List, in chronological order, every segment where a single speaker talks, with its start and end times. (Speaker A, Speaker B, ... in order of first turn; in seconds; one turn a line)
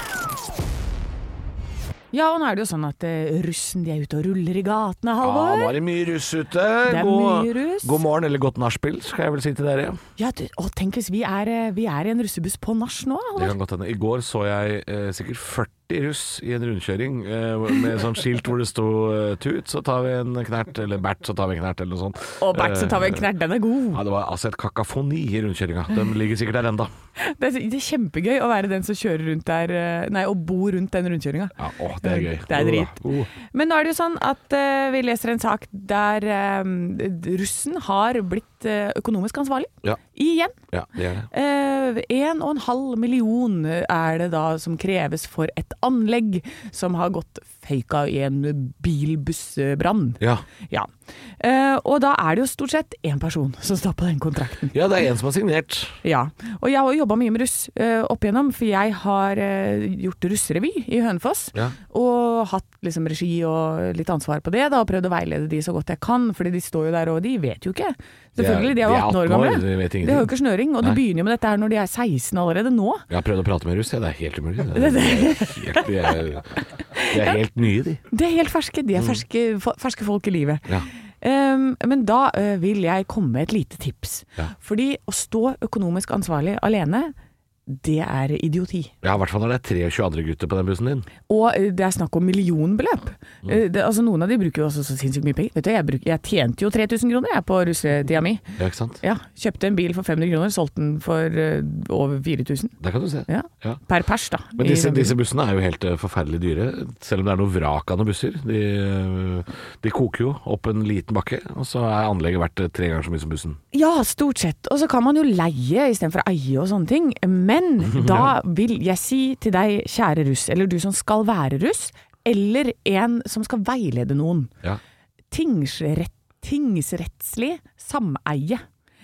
Speaker A: 2.1-5.8
Speaker B: 5.2-10.0
Speaker A: 6.9-8.0
Speaker A: 10.2-13.5
Speaker B: 13.4-23.2
Speaker A: 22.4-24.0
Speaker B: 23.9-26.9
Speaker A: 27.2-40.5
Speaker B: 31.6-33.3
Speaker B: 40.7-41.3
Speaker A: 41.3-50.9
Speaker B: 50.2-50.4
Speaker A: 51.4-54.7
Speaker B: 54.7-56.0
Speaker A: 56.0-73.0
Speaker B: 68.4-71.0
Speaker B: 73.1-78.0
Speaker A: 74.7-75.9
Speaker A: 77.0-77.3
Speaker A: 78.1-80.7
Speaker B: 79.0-79.2
Speaker A: 81.2-87.1
Speaker A: 87.7-88.9
Speaker B: 89.0-91.1
Speaker A: 91.3-98.4
Speaker B: 98.6-99.0
Speaker A: 99.0-102.7
Speaker B: 102.8-103.8
Speaker A: 103.3-105.1
Speaker B: 104.6-113.6
Speaker A: 113.7-124.5
Speaker B: 117.9-118.3
Speaker A: 125.3-128.6